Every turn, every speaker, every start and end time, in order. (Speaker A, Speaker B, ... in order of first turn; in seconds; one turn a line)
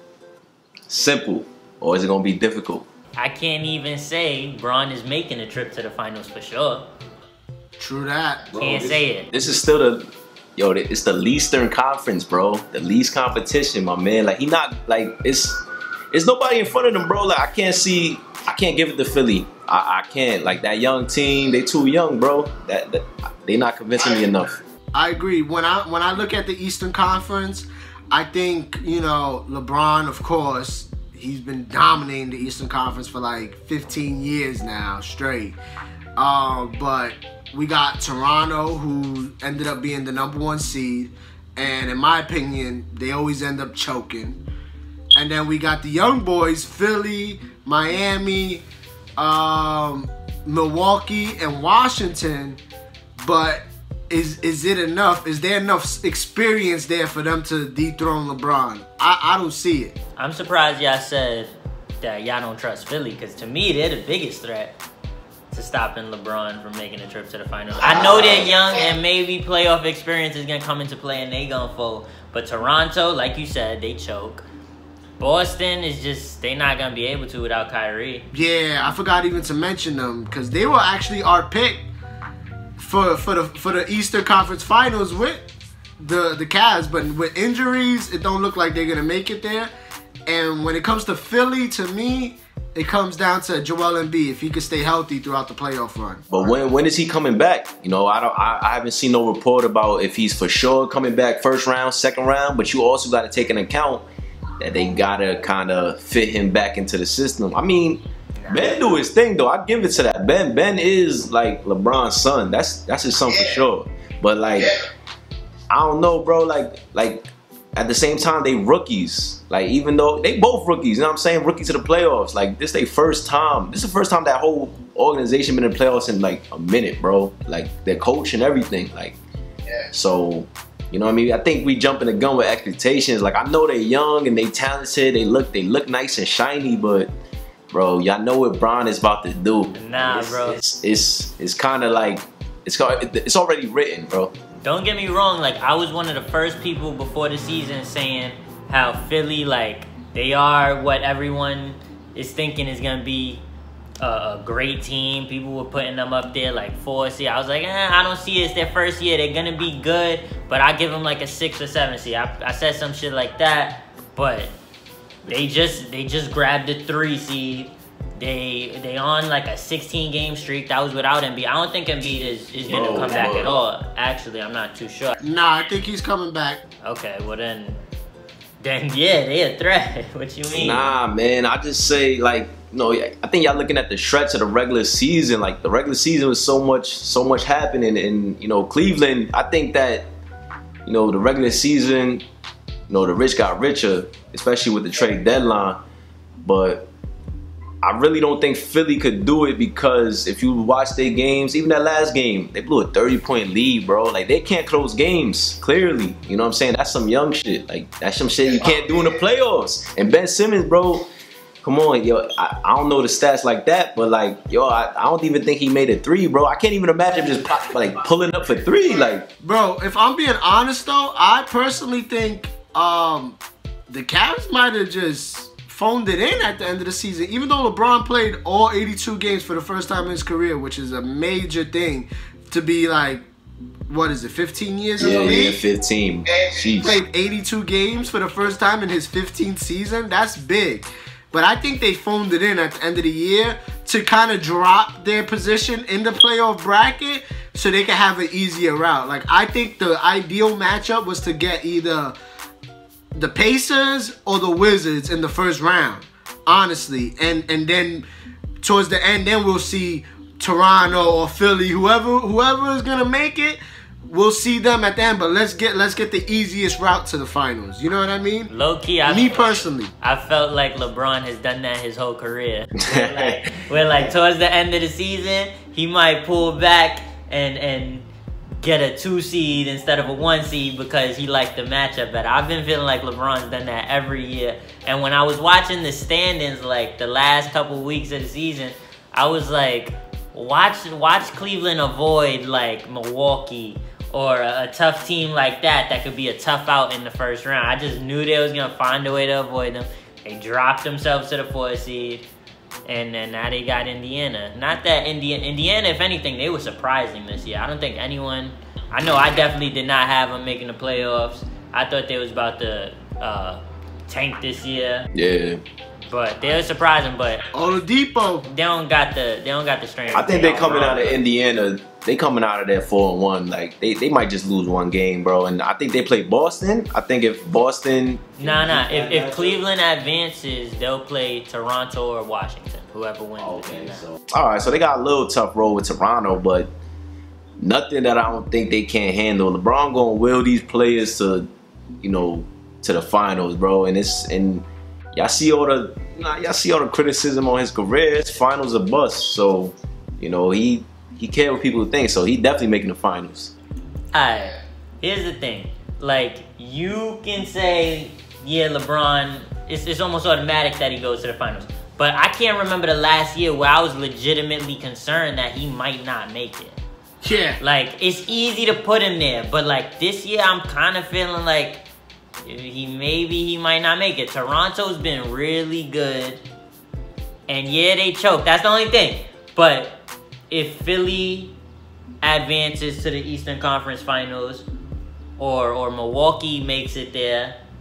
Speaker A: 0.9-2.9
Speaker B: 3.2-6.9
Speaker C: 7.8-8.5
Speaker A: 8.5-15.6
Speaker B: 8.6-9.3
Speaker A: 16.1-24.6
Speaker C: 24.9-35.6
Speaker C: 36.2-44.4
Speaker C: 45.2-48.6
Speaker C: 49.2-52.6
Speaker C: 53.2-60.0
Speaker B: 60.2-64.8
Speaker B: 65.5-74.5
Speaker A: 67.9-68.5
Speaker B: 75.2-78.3
Speaker C: 78.3-81.9
Speaker C: 82.8-85.5
Speaker C: 86.0-89.7
Speaker C: 90.3-96.2
Speaker A: 96.3-104.0
Speaker A: 104.6-114.7
Speaker B: 108.4-108.8
Speaker A: 115.7-129.2
Speaker A: 129.9-137.1
Speaker A: 137.7-144.3
Speaker B: 139.7-140.6
Speaker B: 144.6-153.4
Speaker B: 154.0-164.5
Speaker B: 165.3-175.2
Speaker A: 172.7-173.6
Speaker C: 175.2-176.6
Speaker B: 176.8-177.8
Speaker B: 178.6-180.9
Speaker A: 180.5-190.1
Speaker A: 190.9-192.2
Speaker A: 192.9-195.8
Speaker A: 196.4-196.9
Speaker A: 197.8-211.1
Speaker A: 211.6-219.3
Speaker C: 219.4-223.4
Speaker C: 223.9-233.3
Speaker C: 233.9-235.6
Speaker A: 235.0-237.0
Speaker C: 236.8-252.2
Speaker C: 253.2-258.1
Speaker C: 258.6-268.5
Speaker B: 268.5-278.1
Speaker C: 269.0-269.9
Speaker A: 272.8-273.5
Speaker B: 278.6-302.3
Speaker B: 302.9-315.1
Speaker A: 315.1-315.6
Speaker B: 316.1-317.5
Speaker C: 317.5-318.5
Speaker B: 318.4-321.2
Speaker A: 320.1-329.6
Speaker B: 328.4-334.1
Speaker A: 333.4-336.7
Speaker A: 337.6-341.5
Speaker A: 342.0-353.5
Speaker B: 354.1-366.8
Speaker C: 367.2-367.6
Speaker B: 367.6-371.8
Speaker B: 372.4-376.4
Speaker B: 377.5-381.6
Speaker B: 382.2-384.7
Speaker B: 385.4-387.6